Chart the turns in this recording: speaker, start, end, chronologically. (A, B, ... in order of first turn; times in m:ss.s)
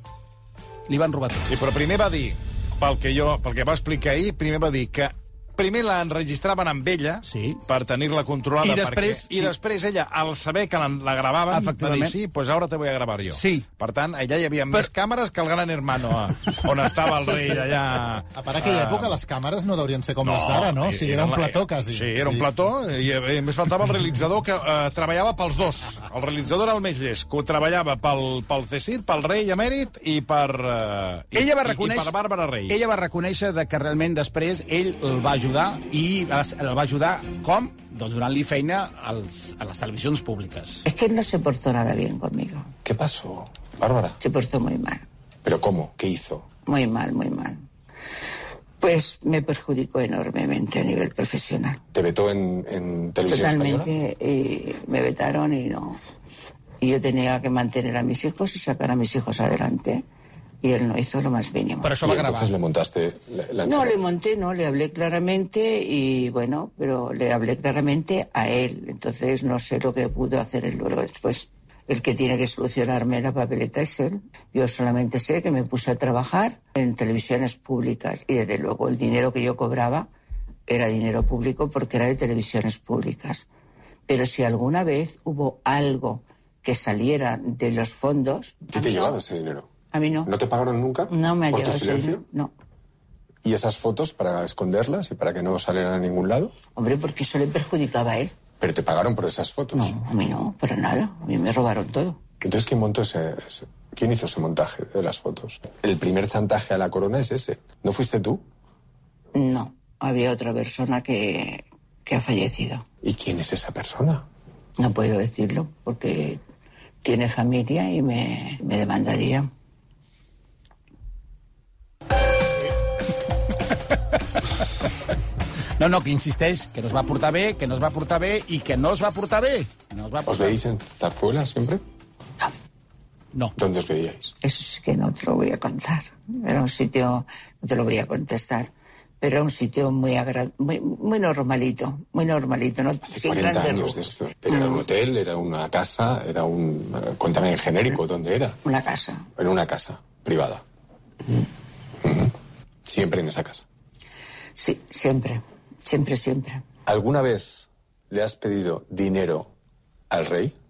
0:00.9-0:01.6 A
0:01.5-0:19.2 B
0:07.2-0:07.6 A
0:08.6-0:09.6 A
0:11.5-0:12.2 A
0:13.3-0:13.7 A
0:17.3-0:17.6 A
0:18.4-0:22.5 C
0:20.2-0:32.8 B
0:31.3-0:40.9 A
0:40.9-0:42.7 D
0:42.8-0:44.2 E
0:44.2-0:45.0 D
0:45.4-0:46.5 E
0:46.7-0:47.7 D
0:48.8-0:51.8 D
0:51.9-0:53.9 E
0:53.3-0:56.0 D
0:56.8-1:00.0 D
1:00.6-1:02.0 D
1:01.8-1:02.6 A
1:02.0-1:04.0 E
1:03.6-1:20.1 D
1:20.7-1:23.5 D
1:24.1-1:29.1 D
1:28.7-1:29.7 E
1:29.9-1:30.3 D
1:30.2-1:32.2 E
1:31.1-1:32.5 D
1:33.4-1:36.5 E
1:36.8-1:38.4 D
1:38.6-1:40.0 E
1:39.7-1:42.2 D
1:42.4-1:48.4 E
1:49.4-1:52.8 D
1:53.0-1:54.2 E
1:54.8-1:56.4 D
1:57.0-1:59.5 D
2:05.8-2:10.6 A
2:10.3-2:11.8 E
2:13.6-2:14.3 E
2:14.4-2:24.8 D
2:23.1-2:28.6 E
2:28.6-2:29.2 D
2:29.4-2:30.6 E
2:32.0-2:32.3 E
2:32.9-2:33.6 E
2:34.6-2:36.6 D
2:36.9-2:39.5 E
2:40.1-2:40.6 E